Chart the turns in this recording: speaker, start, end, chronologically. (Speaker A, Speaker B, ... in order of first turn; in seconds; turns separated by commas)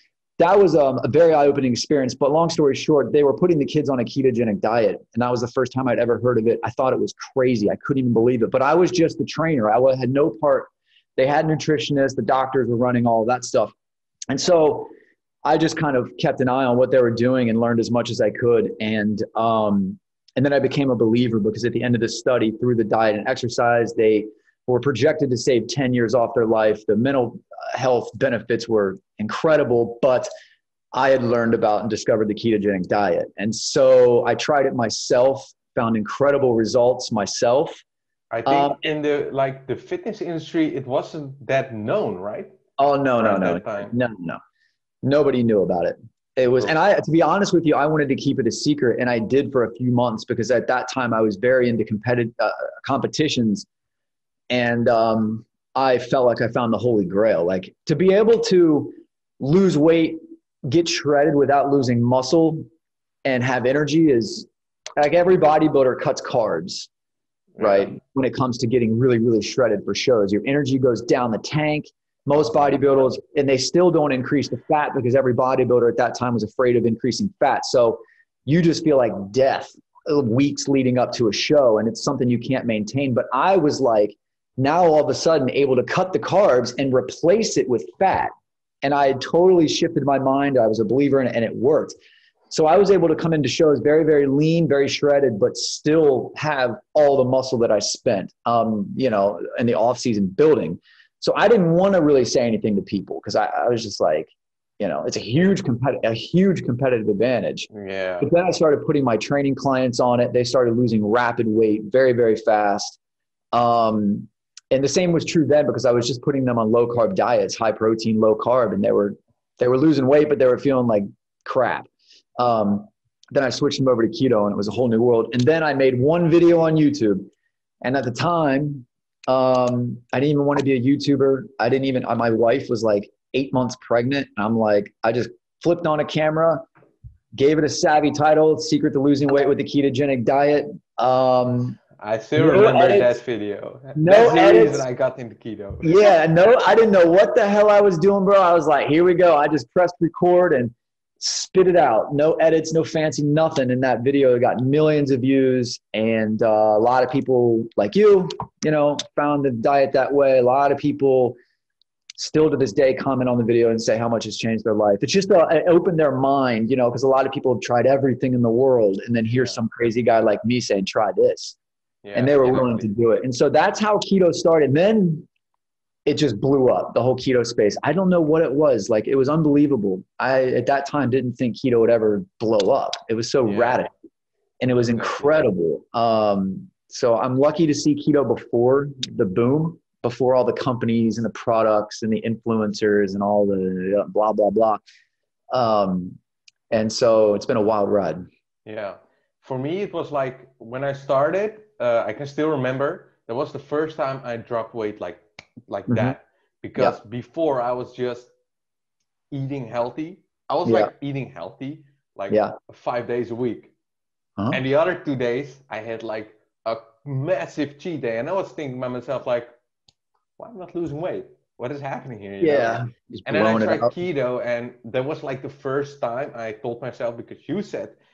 Speaker A: 0.4-13.7, Speaker A: 14.3-14.9, Speaker A: 15.4-30.3, Speaker A: 30.9-37.8, Speaker B: 38.3-42.6, Speaker A: 38.5-38.8, Speaker A: 42.8-44.4, Speaker B: 43.2-43.9, Speaker A: 45.0-53.7, Speaker A: 54.5-62.6, Speaker A: 63.2-66.9, Speaker B: 67.6-67.9, Speaker A: 67.6-88.3, Speaker A: 88.8-92.0, Speaker A: 92.5-107.7, Speaker B: 107.7-108.3, Speaker A: 108.2-113.0, Speaker A: 113.5-127.3, Speaker A: 127.8-136.7, Speaker A: 137.3-141.8, Speaker B: 142.0-146.1, Speaker A: 142.4-143.2, Speaker A: 144.0-144.8, Speaker A: 145.8-161.4, Speaker A: 162.2-171.6, Speaker B: 169.3-169.6, Speaker B: 172.0-172.9, Speaker A: 172.1-175.3, Speaker A: 176.1-183.9, Speaker B: 183.5-183.8, Speaker A: 184.6-194.8, Speaker B: 184.9-185.3, Speaker A: 195.5-196.2, Speaker A: 196.7-198.2, Speaker B: 198.7-208.3, Speaker A: 205.9-206.2, Speaker B: 209.3-213.7, Speaker A: 210.7-210.9, Speaker A: 212.3-212.6, Speaker B: 214.5-219.5, Speaker B: 220.4-228.0, Speaker A: 222.4-224.0